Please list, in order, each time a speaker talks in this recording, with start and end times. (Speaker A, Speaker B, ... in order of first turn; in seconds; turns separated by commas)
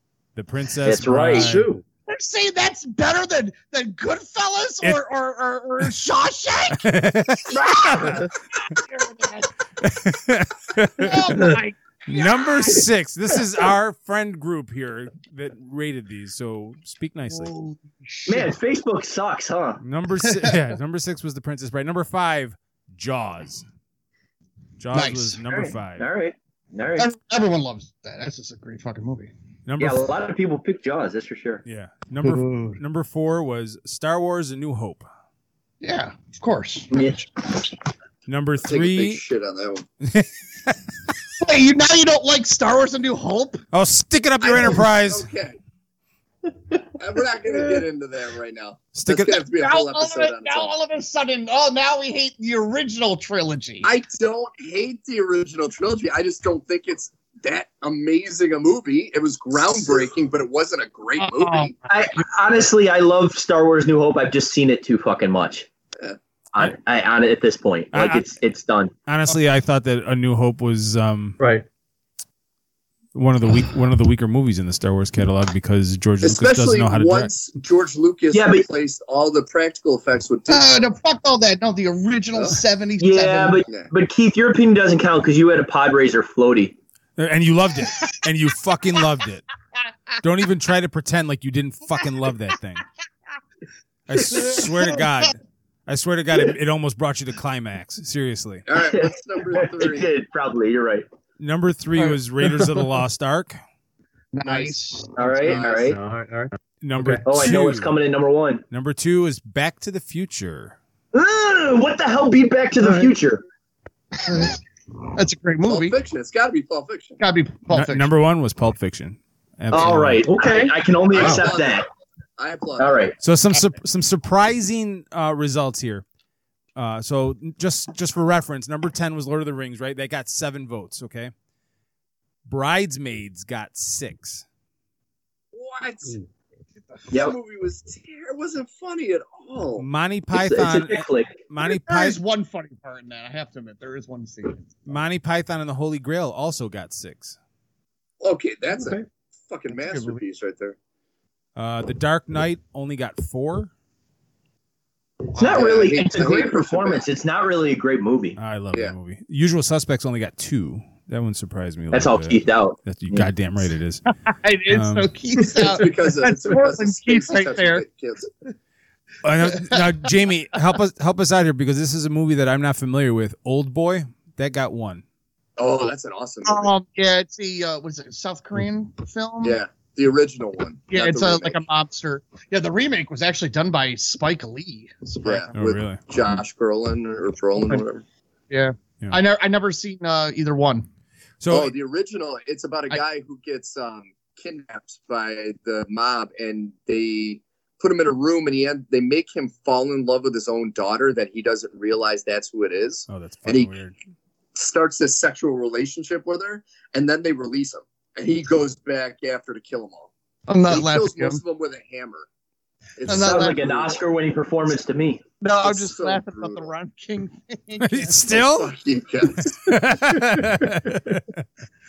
Speaker A: 0.3-1.7, Speaker B: 0.8-1.6, Speaker C: 1.3-1.8, Speaker D: 2.1-9.5, Speaker A: 6.8-8.3, Speaker A: 9.8-11.6, Speaker D: 11.0-12.8, Speaker A: 12.1-17.5, Speaker D: 17.3-18.5, Speaker B: 18.2-19.8, Speaker A: 19.8-23.6, Speaker A: 24.8-26.0, Speaker D: 24.9-25.4, Speaker B: 25.5-27.1, Speaker D: 26.9-29.3, Speaker A: 29.6-30.1, Speaker B: 29.8-31.6, Speaker A: 31.6-35.1, Speaker D: 32.2-32.8, Speaker D: 35.8-37.2, Speaker B: 36.9-37.3, Speaker A: 38.3-39.2, Speaker E: 38.6-39.9, Speaker A: 40.0-40.8, Speaker D: 41.4-43.6, Speaker A: 43.7-45.3, Speaker E: 44.4-45.6, Speaker E: 46.9-50.7, Speaker A: 48.9-49.4, Speaker D: 49.5-53.9, Speaker E: 53.8-61.7, Speaker D: 61.2-62.2, Speaker B: 61.9-65.7, Speaker B: 66.5-68.9, Speaker A: 67.9-68.3, Speaker A: 69.1-71.4, Speaker A: 73.1-77.3, Speaker E: 76.2-80.9, Speaker B: 78.3-78.7, Speaker D: 80.5-83.6, Speaker E: 82.3-82.6, Speaker B: 83.0-86.8, Speaker A: 87.2-89.4, Speaker A: 90.2-92.8, Speaker A: 94.1-98.6, Speaker D: 94.3-94.6, Speaker E: 98.7-100.1, Speaker B: 98.8-101.0, Speaker A: 101.4-103.6, Speaker D: 104.3-105.5, Speaker B: 105.2-106.0, Speaker C: 105.4-107.2, Speaker E: 105.5-105.8, Speaker A: 106.8-107.9, Speaker B: 107.2-108.6, Speaker A: 108.7-110.8, Speaker B: 111.1-113.4, Speaker D: 114.2-114.6, Speaker D: 115.1-116.0, Speaker E: 115.7-117.2, Speaker D: 117.2-118.1, Speaker A: 117.7-120.2, Speaker B: 119.7-121.8, Speaker C: 120.3-121.4, Speaker E: 121.1-121.8, Speaker E: 122.4-123.1, Speaker B: 122.8-123.1, Speaker A: 123.2-126.0, Speaker A: 126.8-131.3, Speaker A: 132.5-134.4, Speaker E: 135.5-136.2, Speaker E: 137.1-139.9, Speaker B: 137.1-137.3, Speaker A: 139.8-142.2, Speaker B: 140.3-141.3, Speaker D: 141.6-144.8, Speaker A: 144.8-147.4, Speaker E: 148.2-150.8, Speaker D: 149.7-150.2, Speaker A: 151.6-153.7, Speaker E: 155.3-157.1, Speaker B: 155.3-158.4, Speaker A: 158.4-164.1, Speaker B: 161.9-163.3, Speaker D: 164.2-167.8, Speaker A: 164.7-165.1, Speaker E: 165.5-168.3, Speaker A: 169.2-175.0, Speaker D: 169.5-169.9, Speaker E: 175.6-176.7, Speaker D: 176.4-179.6, Speaker E: 179.4-181.6, Speaker D: 180.9-185.5, Speaker E: 185.2-188.0, Speaker A: 185.5-186.0, Speaker D: 188.5-190.9, Speaker A: 191.4-191.7, Speaker E: 191.5-203.7, Speaker A: 203.1-203.9, Speaker E: 204.5-210.1, Speaker D: 210.5-211.4, Speaker E: 210.7-212.3, Speaker E: 213.0-214.0, Speaker D: 213.0-213.7, Speaker B: 213.1-215.2, Speaker D: 215.4-218.4, Speaker E: 215.6-216.7, Speaker A: 217.8-218.7, Speaker E: 218.3-219.6, Speaker A: 219.6-221.4